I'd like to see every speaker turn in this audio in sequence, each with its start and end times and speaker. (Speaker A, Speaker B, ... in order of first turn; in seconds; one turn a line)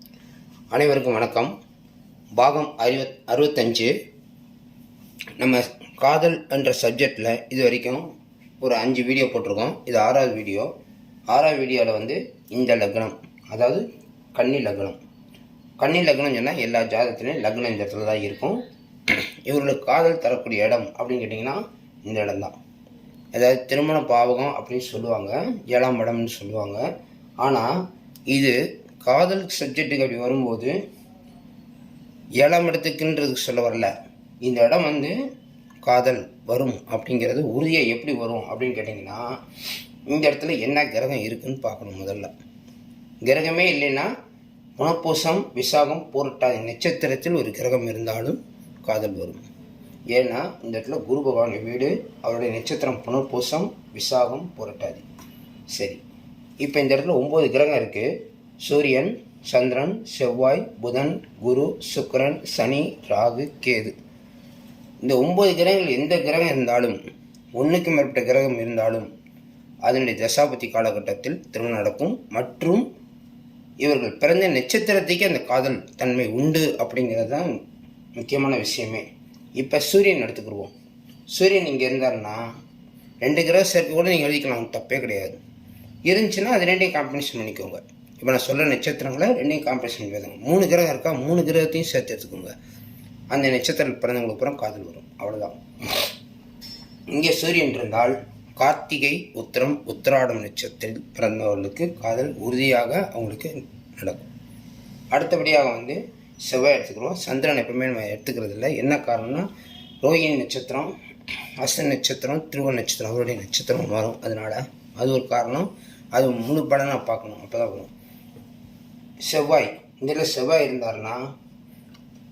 Speaker A: 0.7-1.5
Speaker A: 2.3-3.9
Speaker A: 5.4-8.1
Speaker A: 8.6-10.7
Speaker A: 11.3-13.8
Speaker A: 14.3-15.0
Speaker A: 15.8-22.6
Speaker A: 23.3-26.8
Speaker A: 27.4-27.7
Speaker A: 28.3-30.8
Speaker A: 32.4-33.9
Speaker A: 34.4-35.1
Speaker A: 35.8-39.2
Speaker A: 40.1-42.3
Speaker A: 43.2-44.1
Speaker A: 44.8-49.4
Speaker A: 50.1-55.0
Speaker A: 55.7-56.0
Speaker A: 56.6-58.1
Speaker A: 58.6-63.9
Speaker A: 65.0-67.0
Speaker A: 67.5-69.1
Speaker A: 69.8-72.8
Speaker A: 73.8-77.5
Speaker A: 78.2-79.0
Speaker A: 79.6-80.7
Speaker A: 81.3-82.5
Speaker A: 83.2-85.4
Speaker A: 86.0-92.5
Speaker A: 93.3-96.1
Speaker A: 97.1-104.3
Speaker A: 105.1-109.5
Speaker A: 110.0-110.9
Speaker A: 111.6-117.9
Speaker A: 119.2-121.2